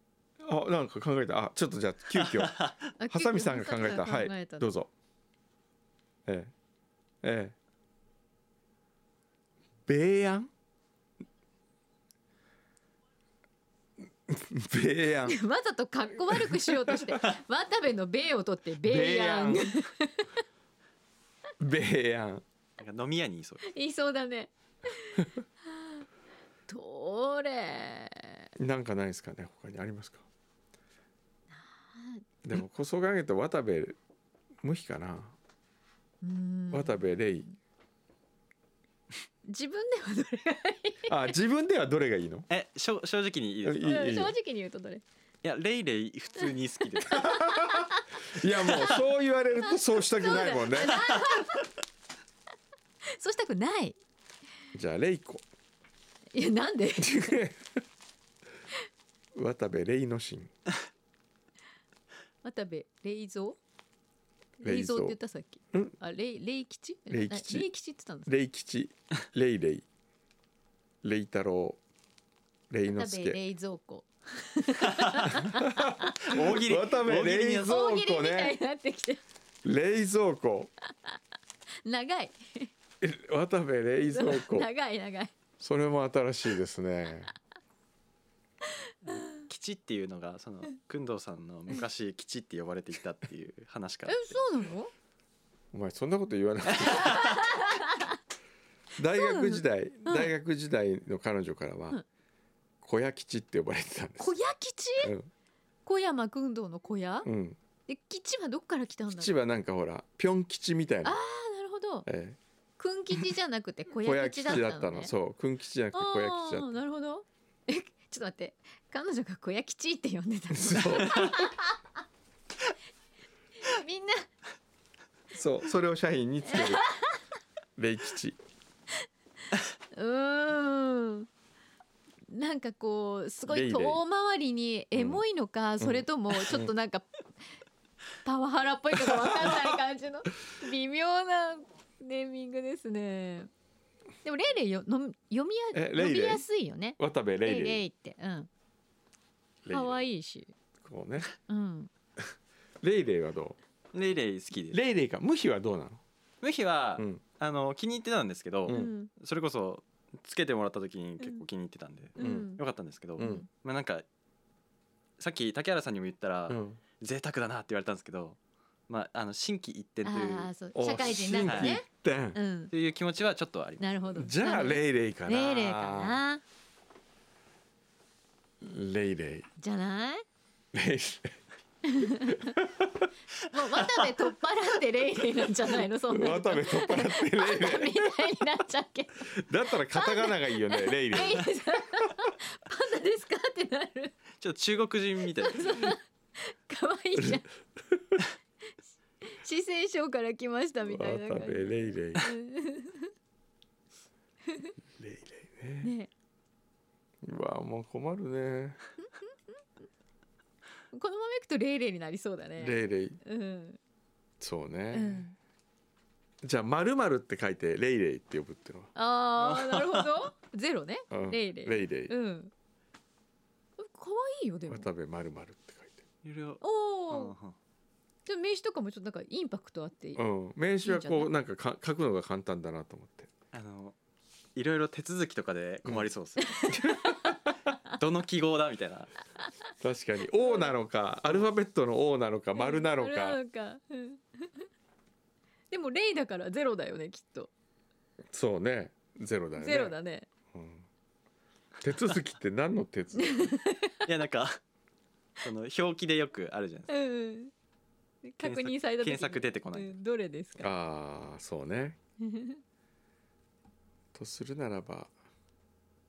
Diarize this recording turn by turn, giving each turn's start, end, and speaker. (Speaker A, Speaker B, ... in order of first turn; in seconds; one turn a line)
Speaker A: 0.4-4.9
Speaker B: 3.0-4.7
Speaker A: 6.2-6.5
Speaker A: 7.2-7.5
Speaker A: 9.8-10.5
Speaker A: 14.3-15.4
Speaker B: 15.3-20.3
Speaker A: 16.3-17.1
Speaker A: 18.8-19.8
Speaker A: 21.6-22.4
Speaker C: 22.8-23.7
Speaker B: 23.6-26.0
Speaker B: 26.7-28.4
Speaker A: 28.6-30.2
Speaker B: 31.5-32.2
Speaker A: 32.4-34.0
Speaker A: 34.6-35.4
Speaker B: 36.2-37.1
Speaker A: 36.7-37.5
Speaker B: 39.5-41.1
Speaker A: 41.1-42.5
Speaker C: 42.5-44.0
Speaker A: 43.6-44.3
Speaker B: 43.9-45.0
Speaker C: 45.4-47.3
Speaker B: 47.1-48.0
Speaker A: 47.1-51.1
Speaker B: 49.6-51.6
Speaker B: 53.1-54.0
Speaker A: 54.7-55.4
Speaker B: 56.3-57.4
Speaker A: 57.0-57.6
Speaker A: 59.3-60.5
Speaker B: 62.4-63.6
Speaker B: 64.6-68.3
Speaker A: 64.6-65.2
Speaker A: 67.1-67.7
Speaker A: 68.2-69.8
Speaker A: 71.0-71.8
Speaker A: 72.7-73.4
Speaker B: 72.9-76.3
Speaker C: 74.9-75.2
Speaker A: 75.4-78.6
Speaker C: 76.2-77.7
Speaker B: 77.6-79.2
Speaker A: 79.6-80.7
Speaker B: 81.8-82.7
Speaker A: 83.0-84.7
Speaker B: 84.1-85.3
Speaker A: 85.6-87.3
Speaker B: 89.1-89.4
Speaker C: 89.5-94.4
Speaker B: 94.1-94.9
Speaker A: 95.7-97.3
Speaker B: 97.0-98.1
Speaker A: 99.0-102.0
Speaker B: 99.1-100.3
Speaker A: 102.8-104.3
Speaker B: 104.2-105.1
Speaker A: 105.0-105.3
Speaker B: 105.8-107.3
Speaker A: 107.2-107.6
Speaker B: 107.9-109.3
Speaker A: 109.1-111.2
Speaker B: 111.0-112.1
Speaker A: 112.0-112.4
Speaker B: 112.8-115.1
Speaker A: 114.0-116.7
Speaker B: 115.9-121.8
Speaker A: 120.5-121.3
Speaker B: 123.6-124.3
Speaker A: 125.3-126.8
Speaker B: 126.5-127.2
Speaker A: 127.8-128.4
Speaker B: 129.9-131.3
Speaker B: 132.3-137.0
Speaker A: 133.5-134.0
Speaker A: 134.9-135.2
Speaker A: 135.8-136.7
Speaker B: 138.2-143.5
Speaker A: 139.1-139.6
Speaker B: 144.2-148.5
Speaker A: 145.7-146.4
Speaker A: 147.0-147.8
Speaker A: 149.6-150.0
Speaker B: 149.7-150.5
Speaker A: 150.8-151.3
Speaker B: 151.5-151.9
Speaker A: 152.8-153.6
Speaker C: 153.9-154.8
Speaker A: 154.7-156.0
Speaker C: 156.4-164.0
Speaker A: 158.7-158.9
Speaker B: 158.7-159.1
Speaker A: 162.2-162.5
Speaker B: 162.2-162.6
Speaker B: 163.2-163.5
Speaker A: 163.2-163.4
Speaker C: 165.2-168.4
Speaker A: 166.5-166.8
Speaker C: 168.9-170.5
Speaker B: 170.0-172.7
Speaker A: 170.7-172.4
Speaker C: 171.4-171.8
Speaker C: 172.7-173.9
Speaker B: 173.8-176.4
Speaker A: 174.1-176.2
Speaker A: 178.6-179.5
Speaker B: 179.6-180.2
Speaker A: 180.7-181.4
Speaker B: 181.8-182.6
Speaker A: 182.3-183.1
Speaker B: 183.4-189.3
Speaker A: 186.1-188.3
Speaker A: 189.3-191.5
Speaker B: 189.9-194.1
Speaker C: 194.4-195.9
Speaker B: 195.4-197.5
Speaker A: 197.2-198.2
Speaker B: 199.2-203.1
Speaker A: 200.8-202.3
Speaker A: 205.0-205.9
Speaker B: 205.8-206.1
Speaker A: 207.2-208.8
Speaker B: 210.9-213.8
Speaker A: 212.6-213.2
Speaker A: 214.4-215.3
Speaker B: 214.9-215.3
Speaker A: 216.4-218.9
Speaker B: 218.9-222.5
Speaker C: 219.4-220.2
Speaker A: 221.1-222.1
Speaker B: 223.8-224.9
Speaker A: 224.7-226.0
Speaker C: 226.2-227.6
Speaker B: 226.6-227.3
Speaker B: 228.2-230.2
Speaker A: 230.2-233.3
Speaker B: 230.8-231.3
Speaker C: 233.5-233.9
Speaker C: 234.5-236.7
Speaker B: 236.4-237.3
Speaker A: 236.7-237.3
Speaker C: 238.0-239.1
Speaker A: 239.8-243.4
Speaker B: 240.4-240.7
Speaker B: 242.5-244.6
Speaker B: 245.7-247.5
Speaker A: 248.3-249.9
Speaker B: 249.6-250.3
Speaker A: 250.5-250.8
Speaker A: 251.8-253.6
Speaker B: 253.2-254.0
Speaker C: 254.1-254.6
Speaker C: 255.4-256.9
Speaker B: 256.9-257.5
Speaker B: 258.2-260.7
Speaker C: 258.4-259.9
Speaker A: 260.6-262.0
Speaker B: 262.2-262.6
Speaker A: 264.1-265.1